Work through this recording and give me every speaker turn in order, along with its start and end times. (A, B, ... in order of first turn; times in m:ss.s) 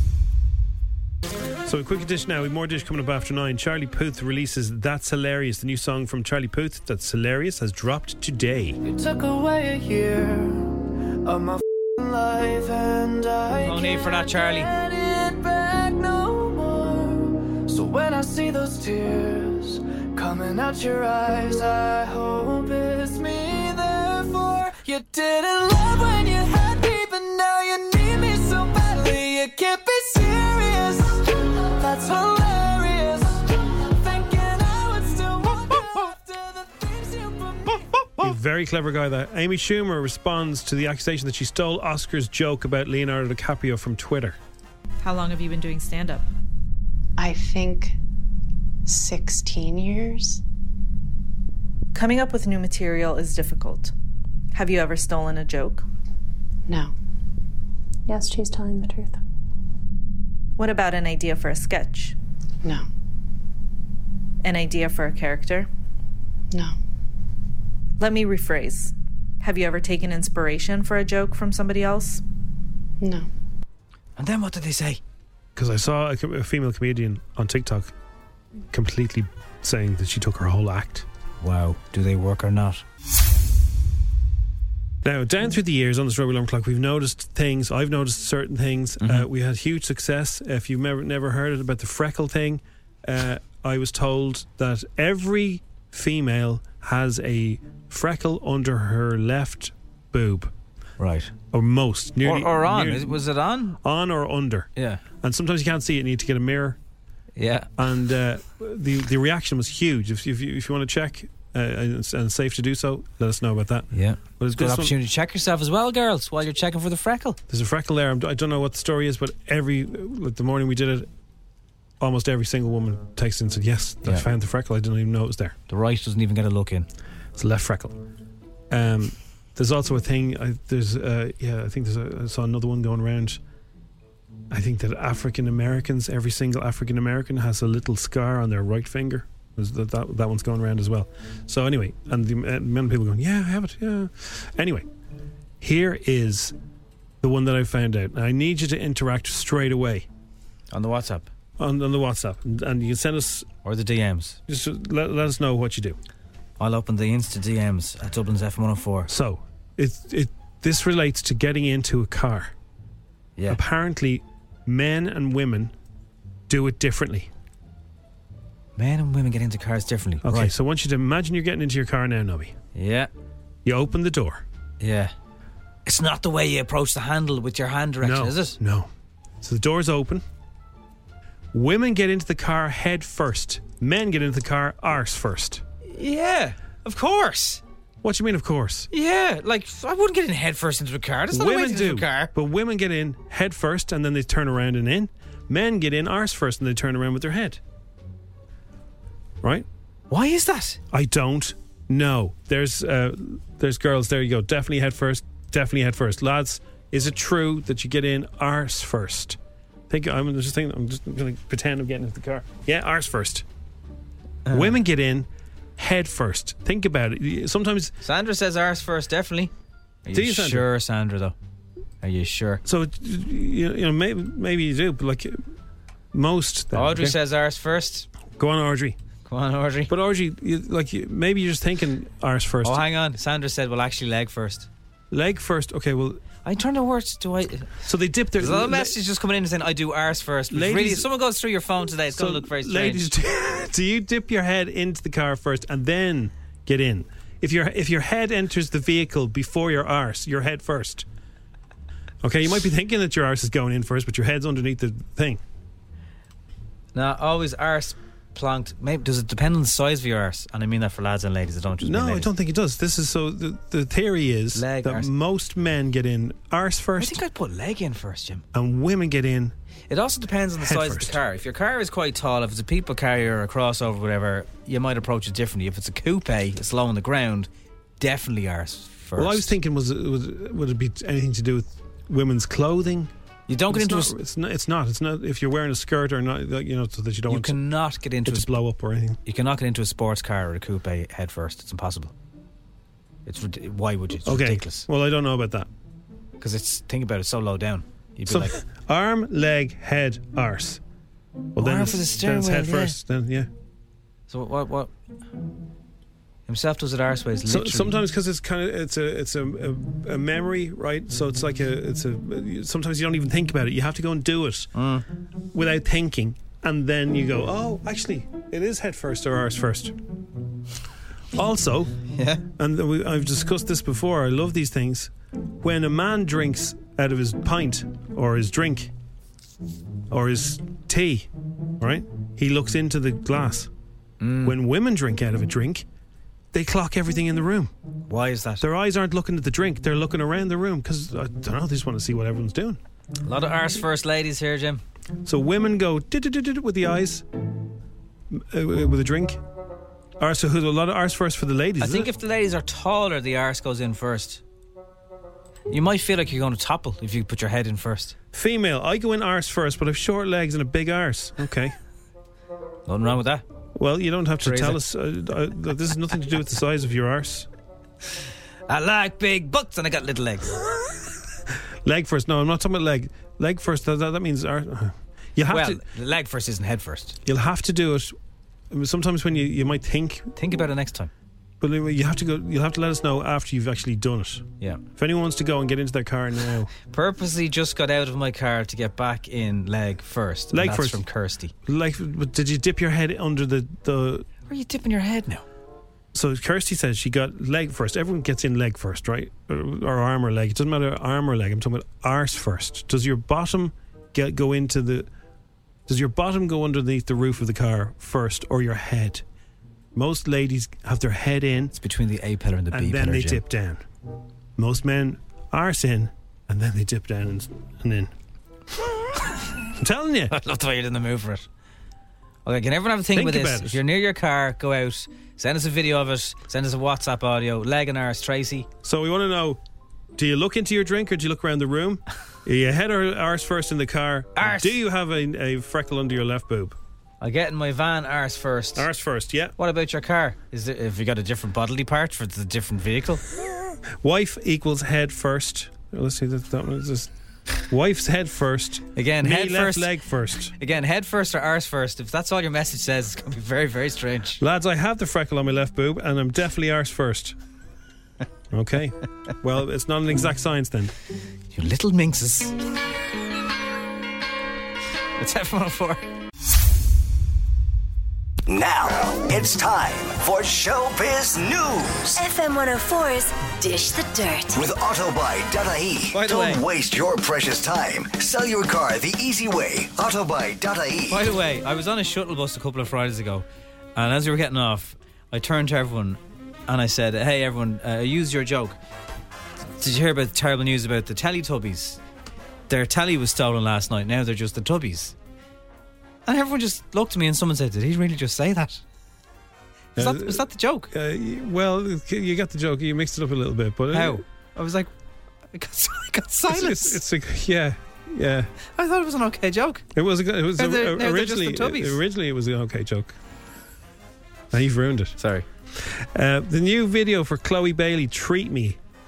0:01.6-0:08.8 A
0:08.8-0:38.0 B
0:13.6-0:14.7 C
0:38.2-0:44.4 A
0:45.0-0:46.3 D
0:47.2-0:48.0 E
0:48.8-0:50.4 E
0:51.9-0:53.9 D
0:54.5-0:55.8 D
0:56.7-0:56.9 E
0:58.1-0:59.2 E
1:00.6-1:02.1 D
1:04.4-1:05.7 D
1:08.0-1:12.2 D
1:13.0-1:13.3 E
1:14.2-1:15.0 C
1:15.5-1:17.9 A
1:18.7-1:21.0 A
1:21.4-1:22.8 C
1:25.0-1:40.5 A
1:29.0-1:29.3 C
1:41.0-1:41.3 C
1:41.5-1:43.2 A
1:42.2-1:43.8 C
1:43.8-1:44.7 A
1:44.8-1:45.0 C
1:45.2-1:46.8 A
1:47.4-1:47.7 C
1:47.8-1:54.9 A
1:53.9-1:57.4 C
1:57.5-2:01.1 A
2:02.0-2:05.5 A
2:05.7-2:06.9 C
2:07.4-2:08.0 A
2:08.7-2:13.4 A
2:14.5-2:24.9 A
2:25.6-2:26.5 A
2:27.2-2:30.1 A
2:30.7-2:31.3 C
2:31.6-2:33.5 A
2:33.6-2:34.4 C
2:34.5-2:36.0 A
2:36.6-2:39.1 C
2:39.1-2:42.5 A
2:43.5-2:45.7 A
2:46.5-2:47.3 A
2:48.8-2:50.5 C
2:50.2-2:52.5 A
2:52.7-2:53.1 C
2:53.6-2:54.4 A
2:54.8-2:55.1 C
2:55.8-2:58.6 C
2:58.0-2:58.9 A
2:59.4-3:00.2 A
3:01.5-3:05.6 A
3:05.9-3:07.6 C
3:08.0-3:08.9 A
3:08.9-3:12.3 C
3:11.3-3:17.6 A
3:20.1-3:20.8 C
3:20.9-3:29.4 A
3:29.9-3:33.4 A
3:34.4-3:34.8 C
3:34.5-3:37.9 A
3:38.0-3:39.5 C
3:40.0-3:41.3 C
3:40.1-3:40.6 A
3:42.0-3:42.6 C
3:42.6-3:45.4 A
3:46.1-3:47.2 A
3:46.7-3:48.1 C
3:48.4-3:49.0 A
3:49.2-3:49.9 C
3:49.9-3:52.8 A
3:52.6-3:54.7 C
3:55.1-3:56.2 A
3:56.4-3:57.8 C
3:57.8-3:58.9 A
3:58.4-4:03.0 C
4:00.5-4:01.1 A
4:02.1-4:11.0 A
4:12.2-4:15.4 A
4:16.9-4:22.3 C
4:21.8-4:27.2 A
4:24.5-4:25.1 C
4:27.0-4:28.4 C
4:28.5-4:29.5 A
4:29.9-4:37.5 C
4:30.6-4:31.2 A
4:38.0-4:39.5 C
4:39.2-4:43.1 A
4:43.5-4:44.1 C
4:43.7-4:47.6 A
4:47.3-4:48.5 C
4:48.2-4:49.2 A
4:49.2-4:52.1 C
4:53.2-4:54.8 C
4:54.2-4:55.7 A
4:56.4-4:58.6 C
4:58.2-5:00.8 A
5:01.5-5:03.5 A
5:01.6-5:03.0 C
5:04.3-5:04.9 C
5:06.5-5:08.0 C
5:07.4-5:14.7 A
5:14.7-5:15.0 C
5:15.5-5:20.0 A
5:21.3-5:21.9 A
5:22.1-5:22.4 C
5:22.6-5:28.9 A
5:30.1-5:31.3 A
5:31.8-5:33.7 A
5:34.2-5:34.5 C
5:34.4-5:35.8 A
5:36.5-5:37.7 A
5:38.1-5:38.6 C
5:38.6-5:42.8 A
5:43.2-5:44.8 C
5:45.2-5:47.2 A
5:48.3-5:49.4 A
5:50.2-5:52.1 A
5:51.8-5:54.4 C
5:55.7-5:58.1 C
5:58.3-6:01.7 A
6:02.9-6:03.4 C
6:03.8-6:07.5 A
6:04.4-6:04.8 C
6:08.7-6:10.6 C
6:11.8-6:15.8 A
6:15.5-6:17.2 C
6:17.2-6:18.1 A
6:18.7-6:20.3 A
6:20.4-6:21.1 C
6:21.6-6:26.7 A
6:26.8-6:31.5 C
6:30.5-6:31.0 A
6:31.6-6:34.3 A
6:34.5-6:35.4 C
6:36.1-6:45.1 A
6:45.9-6:49.2 A
6:49.9-6:51.7 A
6:51.7-6:53.4 C
6:52.7-6:53.8 A
6:54.6-6:58.1 A
6:59.8-7:00.3 A
7:00.3-7:01.4 C
7:02.4-7:08.7 C
7:03.1-7:03.8 A
7:08.8-7:09.6 A
7:10.2-7:16.8 A
7:14.3-7:14.7 C
7:17.2-7:18.9 C
7:18.7-7:19.5 A
7:19.6-7:23.2 C
7:24.0-7:27.1 A
7:27.7-7:30.5 A
7:29.0-7:29.9 C
7:30.6-7:34.4 C
7:34.4-7:37.3 A
7:38.5-7:40.9 A
7:41.5-7:42.5 C
7:45.2-7:46.0 C
7:48.5-7:52.2 F
7:52.1-7:54.6 G
7:54.5-8:01.3 F
7:56.1-7:56.6 C
8:01.1-8:03.4 C
8:04.0-8:08.8 C
8:09.8-8:12.0 C
8:12.7-8:15.1 C
8:16.2-8:18.8 C
8:20.0-8:24.2 A
8:20.0-8:20.9 C
8:23.9-8:24.9 C
8:25.5-8:27.0 C
8:26.5-8:28.5 A
8:28.8-8:29.8 C
8:29.9-8:33.2 A
8:30.6-8:32.0 C
8:34.5-8:35.2 A
8:35.2-8:35.4 C
8:35.7-8:38.8 A